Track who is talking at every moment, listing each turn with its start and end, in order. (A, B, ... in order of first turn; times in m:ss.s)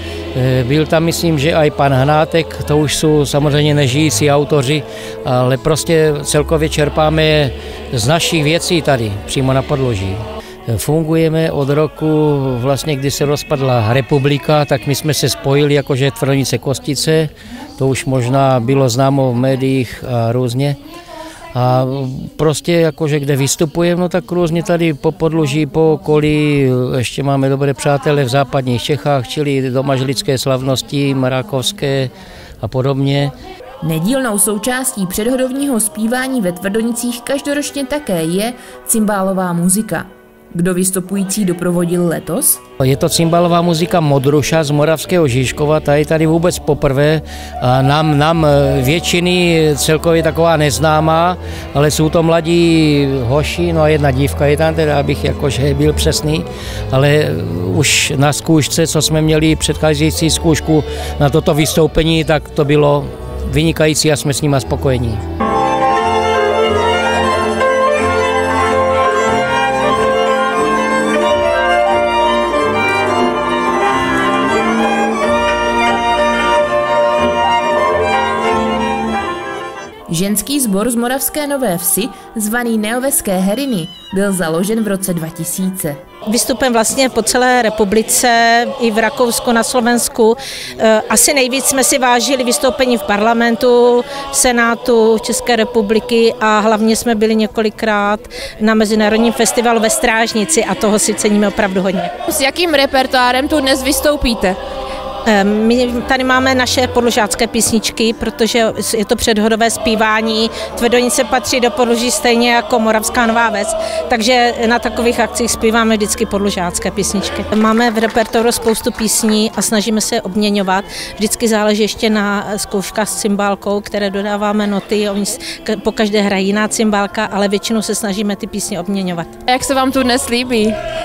0:00.4-0:20.8 A
0:21.6-0:33.3 A
0:33.8-0:42.6 B
0:42.8-1:05.2 A
1:20.1-1:26.0 B
1:26.3-1:42.1 C
1:42.3-1:44.6 D
1:45.3-2:09.3 C
2:09.5-2:10.8 D